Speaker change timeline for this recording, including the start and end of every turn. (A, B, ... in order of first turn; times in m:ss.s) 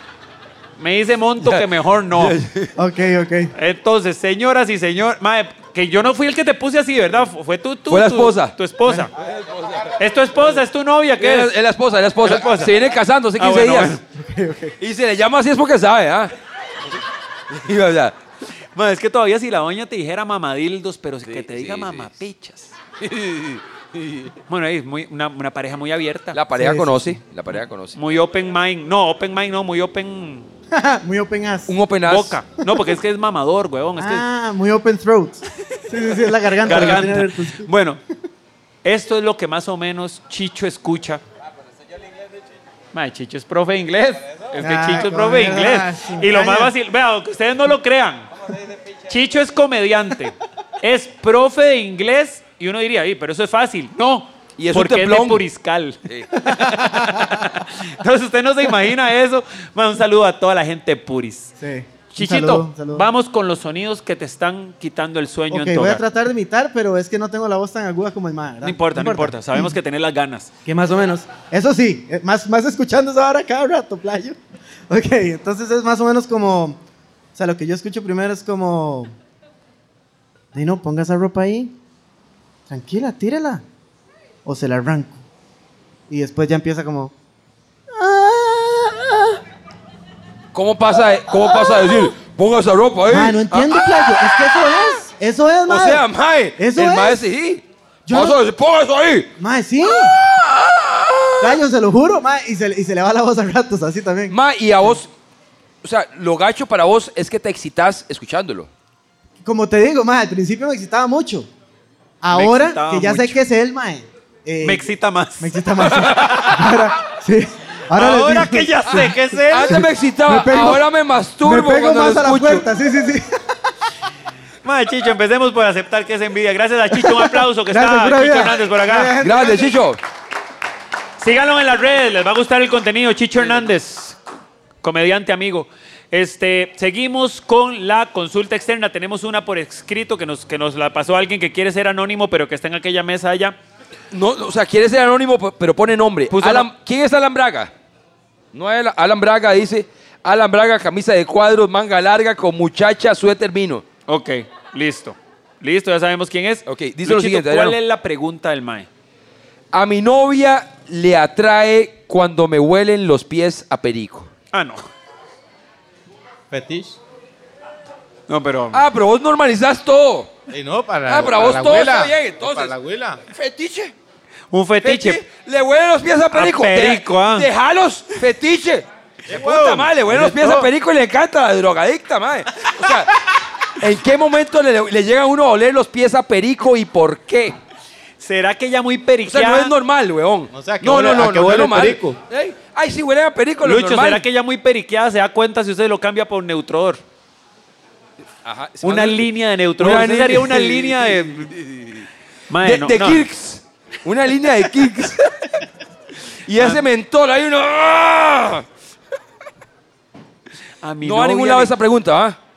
0:00.8-0:02.4 A
0:01.4-0:02.7 B
0:02.8-0:03.5 C
0:03.6-0:09.1 A
0:07.9-0:08.6 B
0:09.4-0:09.8 B
0:10.0-0:11.6 A
0:11.2-0:14.0 B
0:12.2-0:12.7 A
0:13.4-0:14.0 A
0:14.1-0:14.8 C
0:14.8-0:16.3 B
0:17.5-0:18.2 B
0:18.8-0:22.8 A
0:21.3-0:22.1 B
0:23.0-0:24.3 B
0:24.5-0:26.4 A
0:26.3-0:28.0 B
0:26.6-0:27.2 C
0:28.0-0:30.5 A
0:30.7-0:31.8 C
0:31.7-0:32.4 B
0:32.1-0:34.3 A
0:34.0-0:37.7 C
0:36.6-0:38.0 A
0:38.8-0:41.2 A
0:42.9-0:48.3 A
0:44.6-0:46.7 C
0:49.1-0:56.0 A
0:54.6-0:55.4 B
0:56.4-0:56.9 C
0:56.6-1:01.5 A
1:01.6-1:03.1 C
1:02.1-1:06.0 A
1:05.5-1:09.7 C
1:08.6-1:10.5 A
1:10.7-1:14.4 C
1:14.9-1:16.8 C
1:17.4-1:19.2 C
1:20.5-1:21.7 C
1:22.7-1:23.6 C
1:24.4-1:25.2 C
1:26.1-1:27.1 C
1:27.9-1:29.4 C
1:30.5-1:34.7 B
1:31.6-1:31.8 C
1:33.1-1:36.0 C
1:35.7-1:39.3 B
1:36.6-1:37.2 C
1:38.1-1:38.4 C
1:39.4-1:40.2 C
1:39.8-1:41.6 B
1:41.4-1:44.4 C
1:44.3-1:45.1 B
1:45.8-1:48.7 B
1:49.4-1:51.5 C
1:52.2-2:00.9 C
1:52.3-1:53.4 A
1:54.6-1:55.6 A
1:55.8-1:56.5 B
1:58.0-1:59.8 A
1:58.9-2:02.7 B
2:01.4-2:03.5 C
2:04.6-2:09.1 A
2:07.0-2:09.7 C
2:09.2-2:10.0 B
2:11.2-2:14.2 A
2:14.8-2:23.6 A
2:24.1-2:27.7 B
2:26.3-2:26.7 A
2:28.5-2:33.8 B
2:34.1-2:38.9 A
2:36.7-2:37.8 B
2:39.7-2:44.3 B
2:44.5-2:44.9 A
2:46.5-2:47.0 D
2:48.3-2:48.8 A
2:48.7-2:50.3 B
2:50.5-2:53.2 D
2:51.1-2:52.7 B
2:53.3-2:53.9 B
2:54.5-2:55.2 A
2:54.8-3:07.6 B
2:56.3-2:57.5 A
2:59.3-3:00.7 D
3:08.2-3:09.7 A
3:09.3-3:14.2 B
3:10.5-3:12.2 D
3:13.6-3:17.0 A
3:18.4-3:19.3 B
3:18.8-3:21.5 A
3:19.8-3:22.1 B
3:22.5-3:23.3 A
3:22.6-3:25.2 B
3:26.5-3:28.7 B
3:26.6-3:26.8 A
3:30.8-3:31.7 A
3:31.0-3:32.4 B